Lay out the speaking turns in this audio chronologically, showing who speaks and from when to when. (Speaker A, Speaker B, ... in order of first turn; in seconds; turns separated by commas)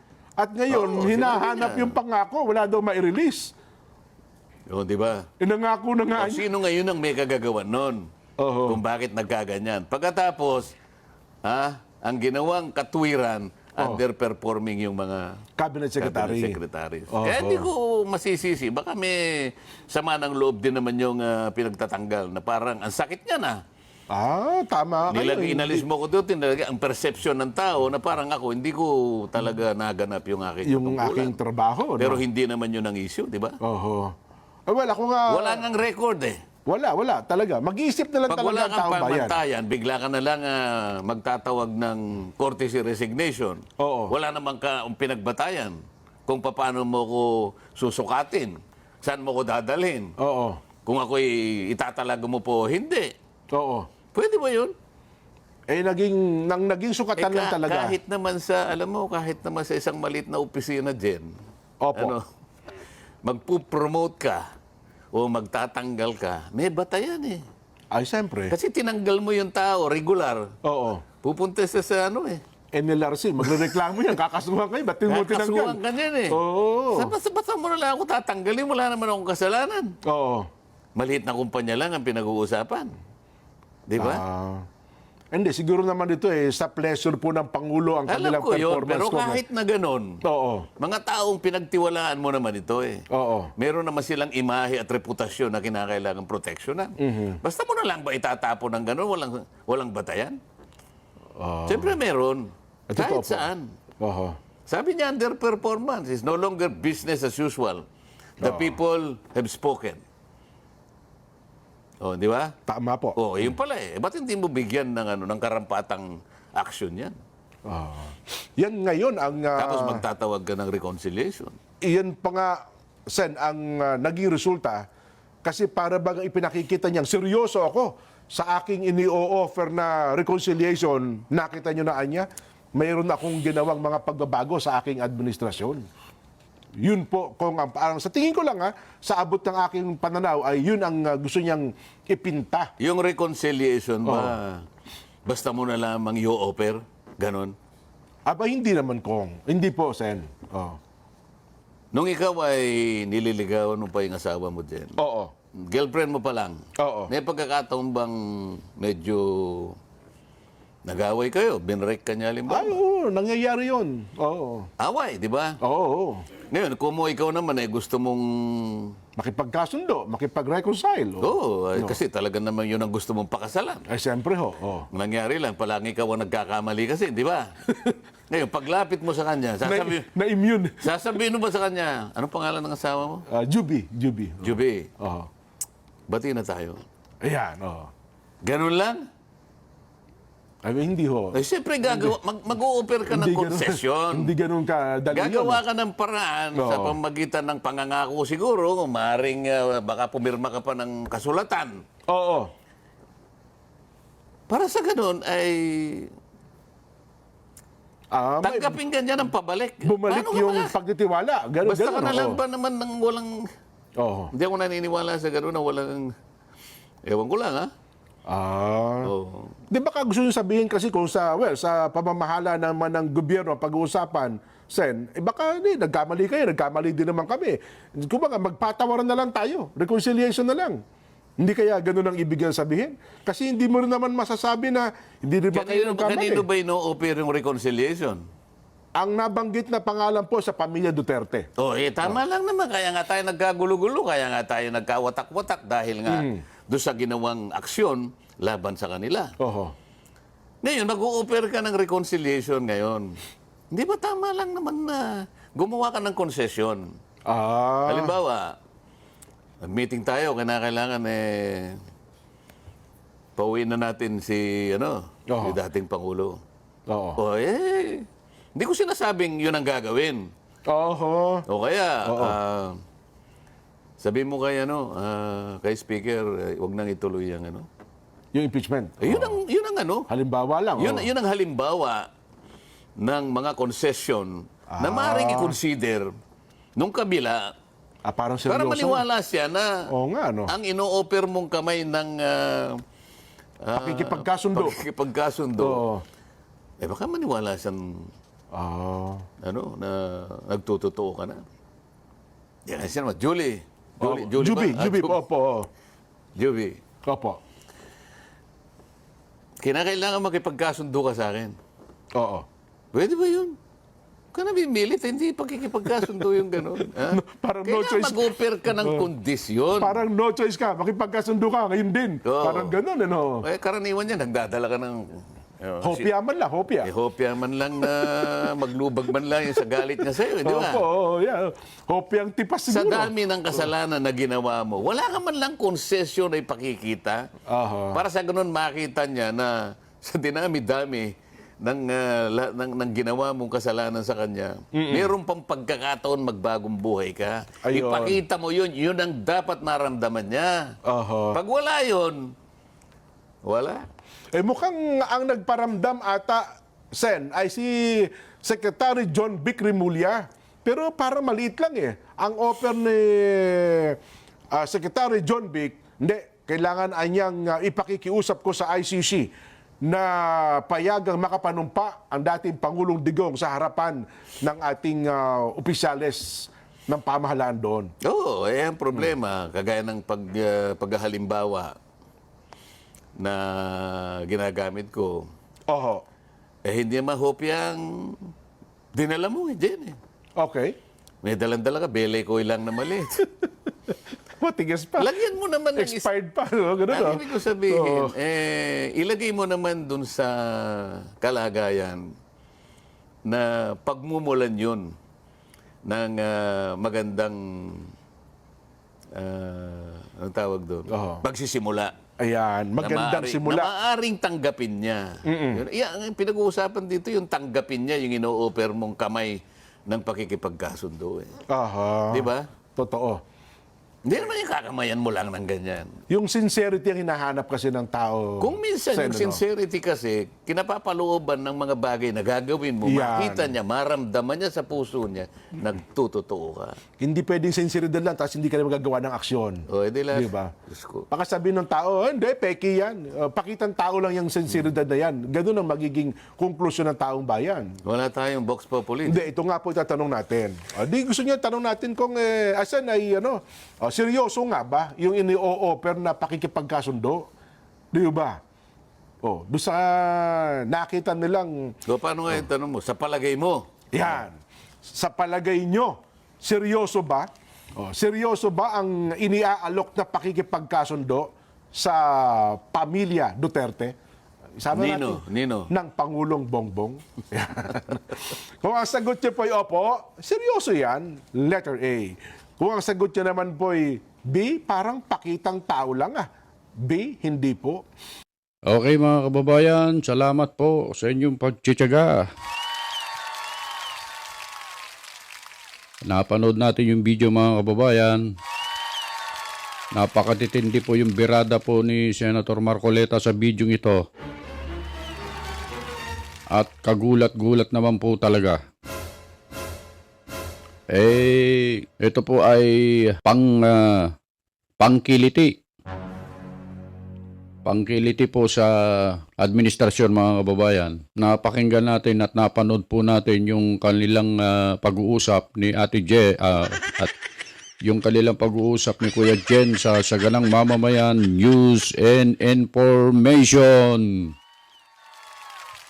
Speaker A: 0.4-3.5, Speaker B: 0.7-2.0, Speaker B: 4.7-5.3, Speaker A: 5.4-6.5, Speaker B: 6.2-8.1, Speaker A: 8.4-8.8, Speaker B: 8.6-10.7, Speaker B: 11.4-15.4, Speaker A: 15.6-16.6, Speaker B: 16.0-23.6, Speaker A: 17.1-17.7, Speaker A: 24.1-25.9, Speaker B: 25.1-31.4, Speaker A: 30.6-32.2, Speaker B: 32.0-33.6, Speaker A: 33.6-34.1, Speaker A: 34.7-35.7, Speaker B: 35.3-36.4, Speaker A: 36.7-39.4, Speaker B: 38.3-50.1, Speaker A: 43.8-44.1, Speaker A: 50.2-50.6, Speaker B: 50.9-53.1, Speaker A: 53.5-53.9, Speaker B: 54.1-54.7, Speaker A: 55.7-58.0, Speaker B: 57.2-61.3, Speaker A: 61.8-62.1, Speaker B: 62.0-62.2, Speaker B: 63.2-64.5, Speaker B: 65.1-67.4, Speaker A: 67.9-68.5, Speaker B: 68.5-70.5, Speaker A: 70.6-71.0, Speaker B: 71.2-72.4, Speaker A: 72.7-75.8, Speaker B: 75.1-76.4, Speaker A: 76.3-77.1, Speaker B: 76.9-80.0, Speaker A: 80.0-80.5, Speaker B: 81.0-82.9, Speaker B: 83.9-84.2, Speaker A: 84.0-84.7, Speaker A: 85.3-89.4, Speaker B: 88.1-90.2, Speaker A: 90.2-90.7, Speaker B: 90.8-93.0, Speaker A: 93.1-93.5, Speaker B: 93.6-100.4, Speaker A: 97.0-97.4, Speaker A: 101.4-102.0, Speaker B: 101.7-103.7, Speaker A: 102.9-103.5, Speaker A: 104.0-104.4, Speaker B: 104.7-107.9, Speaker B: 108.4-110.0, Speaker A: 108.4-108.8, Speaker B: 112.0-112.5, Speaker A: 112.7-113.2, Speaker B: 113.2-117.2, Speaker A: 117.7-120.0, Speaker B: 119.6-121.6, Speaker A: 121.8-124.9, Speaker A: 125.4-135.8, Speaker A: 136.8-142.7, Speaker B: 142.8-144.7, Speaker A: 144.0-144.3, Speaker B: 145.3-147.6, Speaker A: 148.3-150.8, Speaker B: 151.9-155.0, Speaker A: 155.0-155.3, Speaker B: 155.6-159.8, Speaker A: 156.8-157.1, Speaker B: 160.9-162.8, Speaker A: 162.5-164.7, Speaker B: 164.8-165.6, Speaker A: 165.6-166.2, Speaker B: 166.5-168.9, Speaker A: 169.2-172.0, Speaker B: 171.2-173.8, Speaker A: 173.9-174.9, Speaker B: 174.9-177.5, Speaker A: 177.7-178.0, Speaker B: 178.3-180.1, Speaker A: 179.6-180.9, Speaker B: 180.8-183.2, Speaker A: 183.3-185.3, Speaker B: 184.4-184.9, Speaker B: 186.1-186.8, Speaker A: 187.2-187.9, Speaker B: 188.4-189.1, Speaker A: 190.6-192.2, Speaker B: 191.3-194.3, Speaker A: 193.1-195.6, Speaker B: 195.1-201.8, Speaker A: 196.6-197.0, Speaker A: 202.1-202.5, Speaker B: 204.5-206.1, Speaker A: 208.1-208.8, Speaker B: 208.4-210.7, Speaker A: 209.8-212.4, Speaker B: 211.6-213.5, Speaker A: 214.0-214.3, Speaker B: 214.3-216.1, Speaker B: 217.1-217.7, Speaker A: 218.3-219.1, Speaker B: 219.0-219.6, Speaker A: 219.7-230.8, Speaker A: 231.4-236.5, Speaker B: 235.5-238.2, Speaker A: 239.0-241.5, Speaker B: 241.6-249.3, Speaker A: 246.1-246.4, Speaker A: 249.4-249.7, Speaker B: 250.6-253.2, Speaker B: 253.7-256.9, Speaker A: 257.3-258.2, Speaker B: 257.9-258.6, Speaker B: 259.6-261.8, Speaker B: 263.4-266.4, Speaker A: 265.3-265.6, Speaker A: 266.9-267.2, Speaker B: 267.2-270.3, Speaker A: 270.7-271.4, Speaker B: 271.5-272.8, Speaker A: 272.1-272.4, Speaker B: 274.0-277.7, Speaker A: 278.3-279.4, Speaker B: 279.0-280.1, Speaker A: 280.1-281.1, Speaker B: 280.8-282.1, Speaker B: 283.0-286.1, Speaker A: 284.7-285.6, Speaker B: 286.8-287.5, Speaker A: 288.1-289.0, Speaker B: 288.5-289.8, Speaker A: 289.9-290.5, Speaker B: 290.5-292.8, Speaker B: 293.6-295.8, Speaker A: 293.8-294.8, Speaker A: 295.6-296.0, Speaker B: 296.8-298.1, Speaker A: 298.5-299.3, Speaker B: 299.4-301.4, Speaker B: 302.7-305.2, Speaker A: 304.0-305.7, Speaker B: 306.4-306.8, Speaker A: 307.1-307.4, Speaker B: 309.6-311.6, Speaker A: 312.1-312.5, Speaker B: 312.9-313.6, Speaker B: 314.3-320.0, Speaker A: 316.9-319.1, Speaker A: 319.8-323.4, Speaker B: 322.2-322.8, Speaker B: 323.4-326.1, Speaker A: 325.8-326.9, Speaker B: 326.8-330.8, Speaker A: 330.4-333.7, Speaker B: 332.7-337.3, Speaker A: 337.5-338.0, Speaker B: 337.9-350.8, Speaker A: 344.7-345.1, Speaker A: 347.7-348.2, Speaker A: 350.9-351.4, Speaker B: 351.3-352.3, Speaker B: 353.4-353.8, Speaker A: 354.3-364.0, Speaker A: 364.5-369.3, Speaker A: 369.8-377.9, Speaker B: 378.0-381.7, Speaker B: 383.2-385.3, Speaker A: 385.7-386.0, Speaker B: 386.6-388.3, Speaker B: 388.9-390.0, Speaker A: 390.4-390.8, Speaker B: 391.2-393.3, Speaker A: 394.4-395.1, Speaker B: 395.0-396.1, Speaker A: 395.8-398.1, Speaker B: 396.9-402.1, Speaker B: 403.3-404.9, Speaker B: 405.9-407.9, Speaker B: 409.1-411.9, Speaker A: 410.9-411.2, Speaker A: 412.2-413.7, Speaker B: 412.8-421.4, Speaker A: 415.3-415.6, Speaker A: 421.5-423.2, Speaker B: 422.1-422.5, Speaker B: 424.1-426.0, Speaker A: 426.1-429.4, Speaker B: 428.4-436.8, Speaker A: 432.8-433.6, Speaker A: 437.0-440.5, Speaker B: 439.7-441.1, Speaker A: 441.1-447.8, Speaker B: 447.8-449.3, Speaker A: 449.1-457.3, Speaker A: 457.9-458.4, Speaker A: 459.2-461.8, Speaker B: 461.9-463.7, Speaker A: 463.9-473.9, Speaker A: 474.6-486.3, Speaker B: 474.7-475.7, Speaker A: 486.8-487.8, Speaker C: 488.7-492.2, Speaker C: 496.1-498.3, Speaker C: 499.9-504.1, Speaker C: 506.5-508.6, Speaker C: 510.9-514.1, Speaker C: 514.8-515.6, Speaker C: 517.6-527.1, Speaker C: 527.9-534.3